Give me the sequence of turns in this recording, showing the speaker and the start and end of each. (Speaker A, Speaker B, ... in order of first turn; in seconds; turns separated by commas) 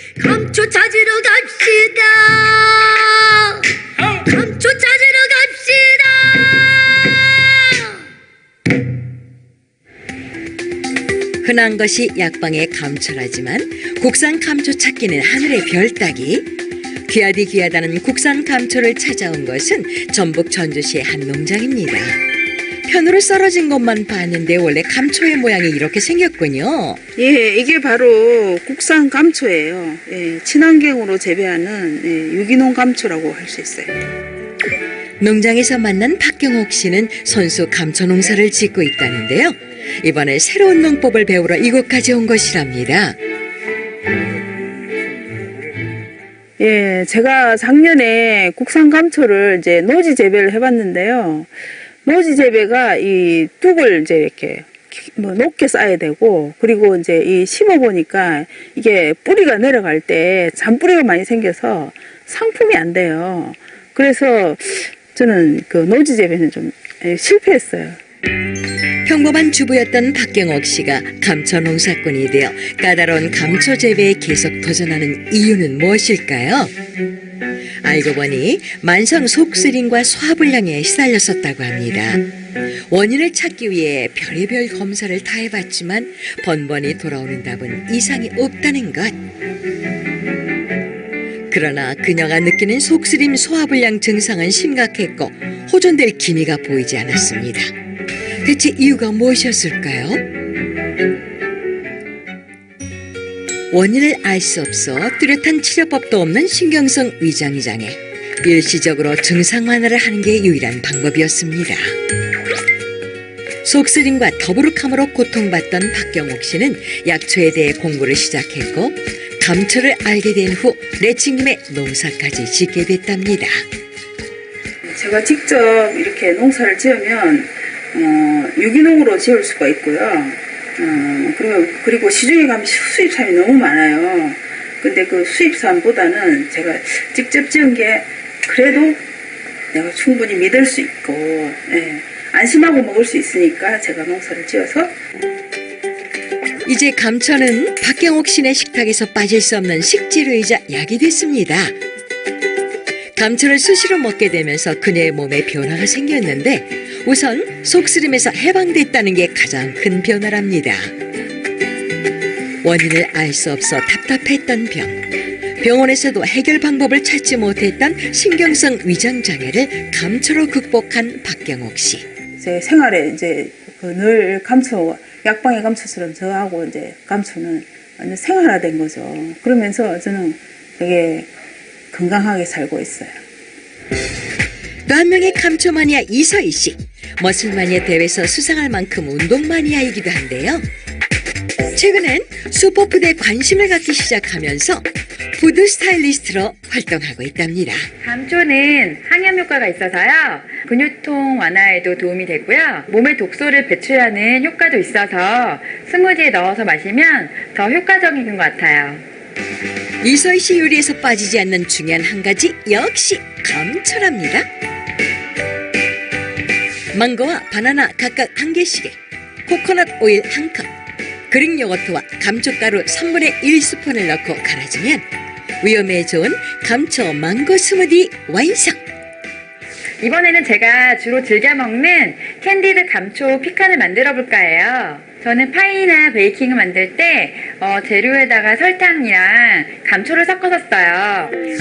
Speaker A: 0.2-8.0, Speaker B: 11.4-16.5, Speaker B: 17.1-22.2, Speaker B: 22.9-27.0, Speaker C: 27.2-33.9, Speaker B: 35.2-43.2, Speaker C: 46.6-51.5, Speaker C: 52.0-68.0, Speaker B: 69.1-76.7, Speaker B: 77.8-82.3, Speaker B: 82.9-89.2, Speaker B: 91.5-97.7, Speaker B: 98.4-100.2, Speaker B: 103.7-111.8, Speaker B: 113.6-123.5, Speaker C: 124.8-139.0, Speaker C: 139.7-144.9, Speaker B: 146.7-151.7, Speaker B: 153.2-160.9, Speaker B: 162.6-165.0, Speaker B: 165.6-172.1, Speaker C: 172.4-181.3, Speaker C: 181.9-183.2, Speaker B: 184.9-190.6, Speaker B: 191.7-197.9, Speaker D: 198.0-209.0, Speaker B: 210.0-214.5, Speaker B: 216.9-220.7, Speaker B: 221.3-225.0, Speaker B: 225.6-228.8, Speaker D: 230.0-241.4